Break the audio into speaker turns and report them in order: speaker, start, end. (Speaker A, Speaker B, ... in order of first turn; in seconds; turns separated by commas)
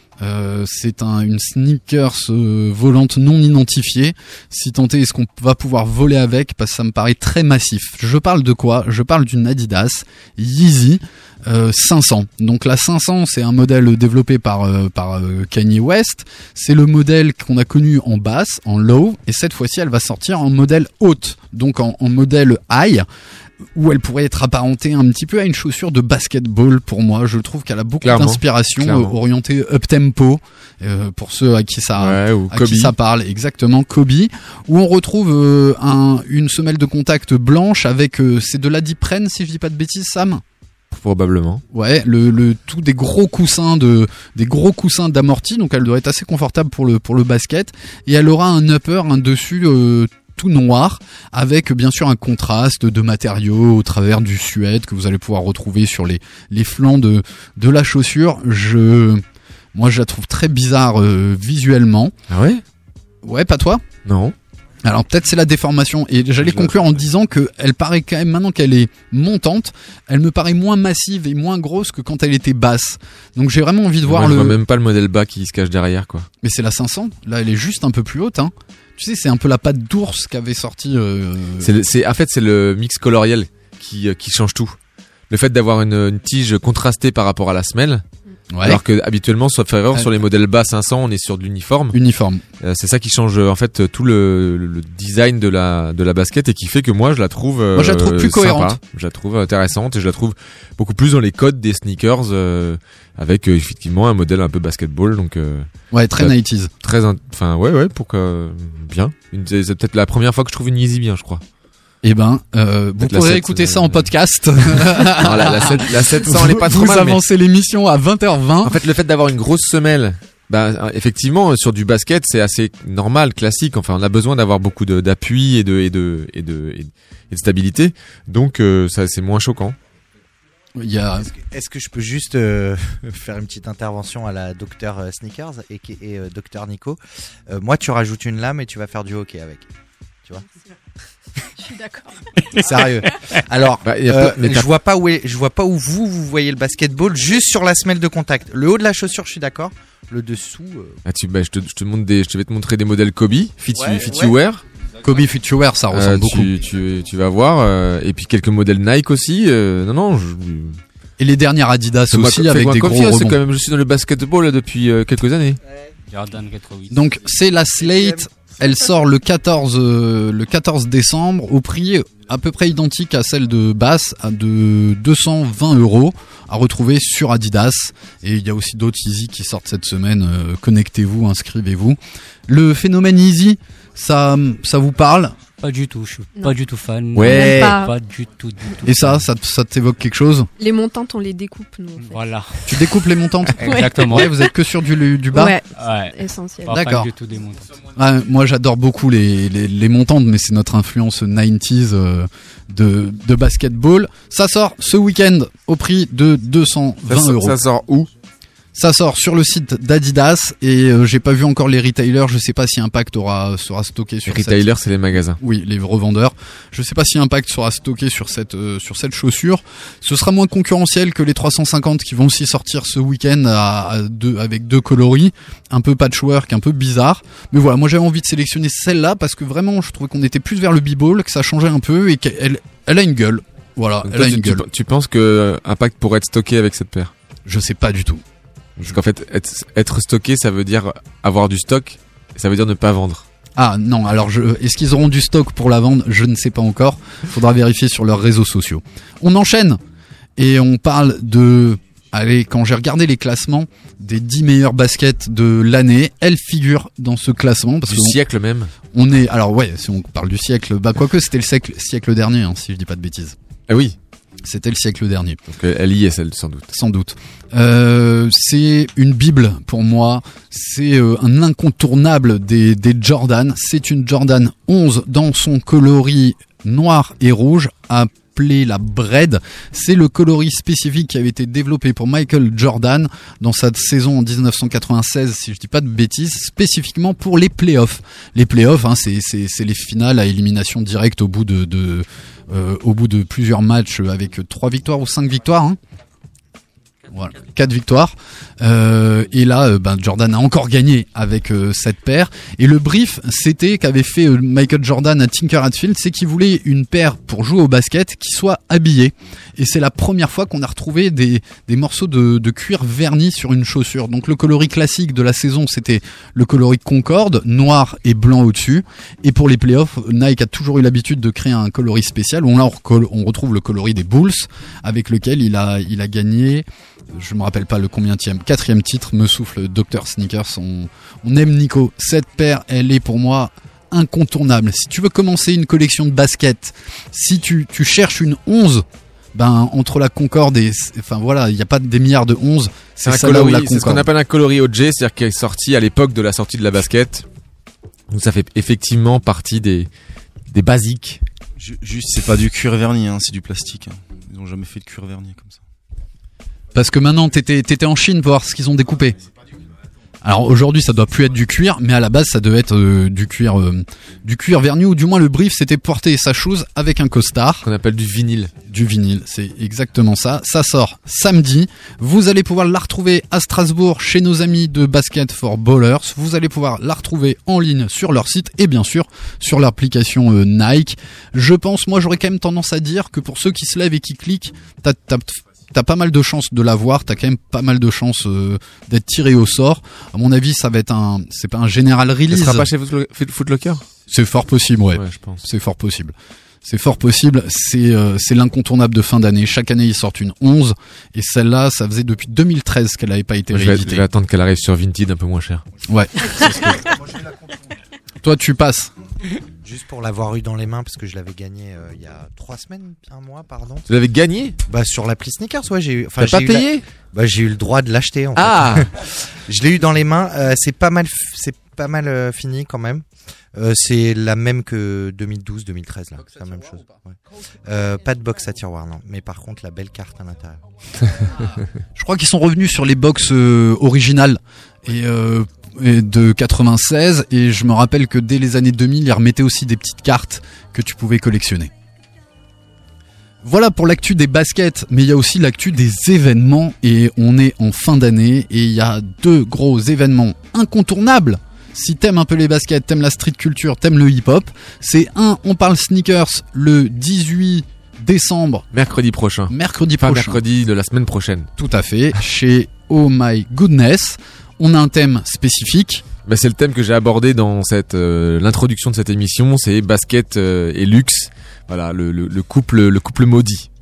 Speaker A: 0.2-23.1, Speaker A: 23.8-40.4, Speaker B: 28.0-29.1, Speaker B: 32.0-32.9, Speaker B: 40.9-41.6, Speaker A: 41.7-59.2, Speaker A: 59.7-62.1, Speaker B: 62.3-62.6, Speaker A: 63.2-63.8, Speaker B: 64.0-64.3, Speaker A: 64.8-74.6, Speaker B: 66.4-66.8, Speaker B: 74.1-76.3, Speaker A: 76.4-81.7, Speaker B: 81.6-84.8, Speaker B: 85.3-88.0, Speaker A: 88.5-88.8, Speaker B: 88.6-92.0, Speaker A: 91.9-92.4, Speaker B: 92.6-111.4, Speaker A: 97.8-98.8, Speaker A: 105.9-106.7, Speaker A: 112.0-118.8, Speaker B: 113.0-114.1, Speaker B: 114.7-117.2, Speaker B: 118.6-129.8, Speaker A: 130.8-131.3, Speaker C: 131.3-139.6, Speaker D: 141.6-142.2, Speaker C: 142.6-151.0, Speaker B: 143.8-144.7, Speaker B: 151.1-154.6, Speaker A: 155.0-156.5, Speaker B: 155.9-160.8, Speaker A: 161.2-163.4, Speaker B: 162.1-165.6, Speaker E: 166.1-167.0, Speaker A: 166.9-185.3, Speaker E: 185.6-189.2, Speaker B: 187.2-187.8, Speaker D: 187.2-187.9, Speaker A: 188.8-190.5, Speaker D: 190.6-192.2, Speaker E: 192.0-192.8, Speaker A: 192.7-195.6, Speaker E: 193.6-194.3, Speaker D: 193.6-194.3, Speaker D: 195.3-196.8, Speaker E: 195.8-197.8, Speaker A: 196.7-197.1, Speaker A: 197.9-207.6, Speaker B: 207.1-208.1, Speaker A: 208.7-214.7, Speaker B: 214.3-215.4, Speaker A: 215.4-234.7, Speaker B: 234.0-237.1, Speaker A: 237.5-238.2, Speaker B: 238.8-243.2, Speaker A: 243.6-249.8, Speaker A: 250.4-258.2, Speaker B: 257.9-258.7, Speaker A: 258.9-263.4, Speaker B: 263.7-264.0, Speaker A: 264.4-265.4, Speaker B: 265.5-266.7, Speaker A: 266.7-295.8, Speaker A: 297.1-344.1, Speaker B: 343.1-347.3, Speaker B: 348.1-349.9, Speaker B: 350.5-351.2, Speaker F: 351.6-355.6, Speaker A: 356.7-359.2, Speaker A: 360.2-367.6, Speaker B: 367.6-368.5, Speaker A: 368.7-392.7, Speaker B: 392.3-393.9, Speaker A: 394.1-404.1, Speaker B: 394.9-395.4, Speaker B: 403.5-405.6, Speaker A: 405.9-406.4, Speaker B: 406.2-406.9, Speaker A: 408.2-408.9, Speaker C: 409.6-413.9, Speaker B: 413.9-414.6, Speaker C: 414.7-423.0, Speaker B: 416.2-416.8, Speaker B: 418.4-418.9, Speaker C: 423.6-430.6, Speaker A: 431.9-441.7, Speaker A: 443.4-458.7, Speaker B: 458.7-461.5, Speaker A: 459.5-460.4, Speaker A: 461.6-466.0, Speaker B: 466.2-473.7